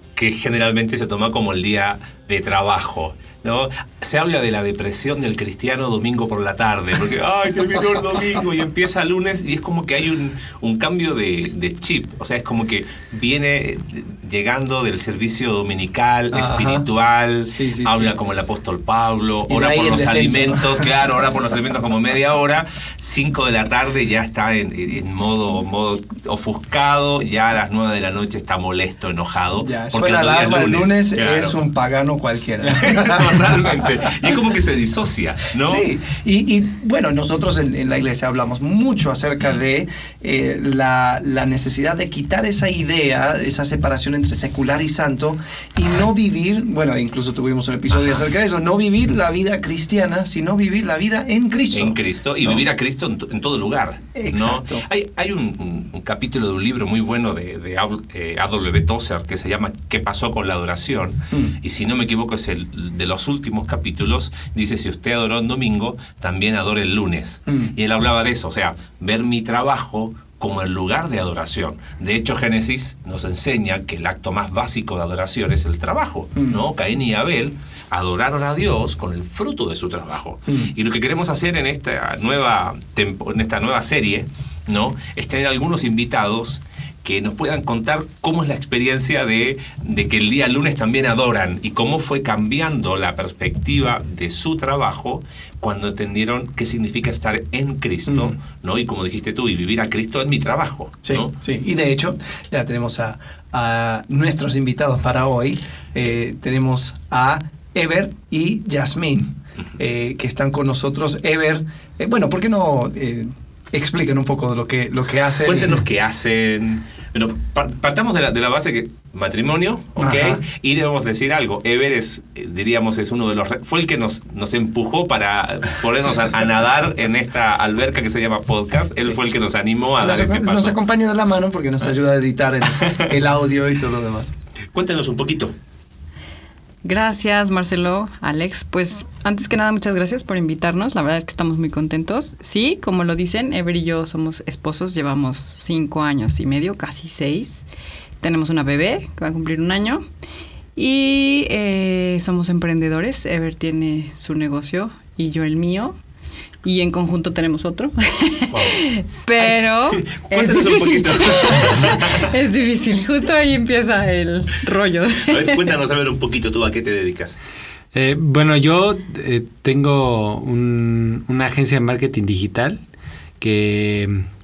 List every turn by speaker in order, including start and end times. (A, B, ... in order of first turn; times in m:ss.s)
0:00.2-0:31.6 A
0:16.3-0:16.8 B
0:17.5-0:18.1 B
0:19.5-0:20.8 B
0:29.6-0:33.7 B
0:32.6-0:35.8 A
0:35.6-0:52.6 B
0:47.9-0:48.2 A
0:51.7-1:41.3 A
0:54.1-0:54.8 B
1:38.1-1:38.3 B
1:41.0-1:55.8 B
1:55.4-2:10.8 A
2:00.0-2:00.4 B
2:10.0-2:14.3 B
2:14.7-2:15.5 A
2:16.8-2:27.6 C
2:28.2-2:30.0 C
2:30.8-2:36.0 C
2:36.6-2:45.6 C
2:38.5-2:38.8 A
2:39.4-2:42.3 A
2:45.3-2:47.4 A
2:47.9-2:52.8 D
2:53.4-2:54.2 D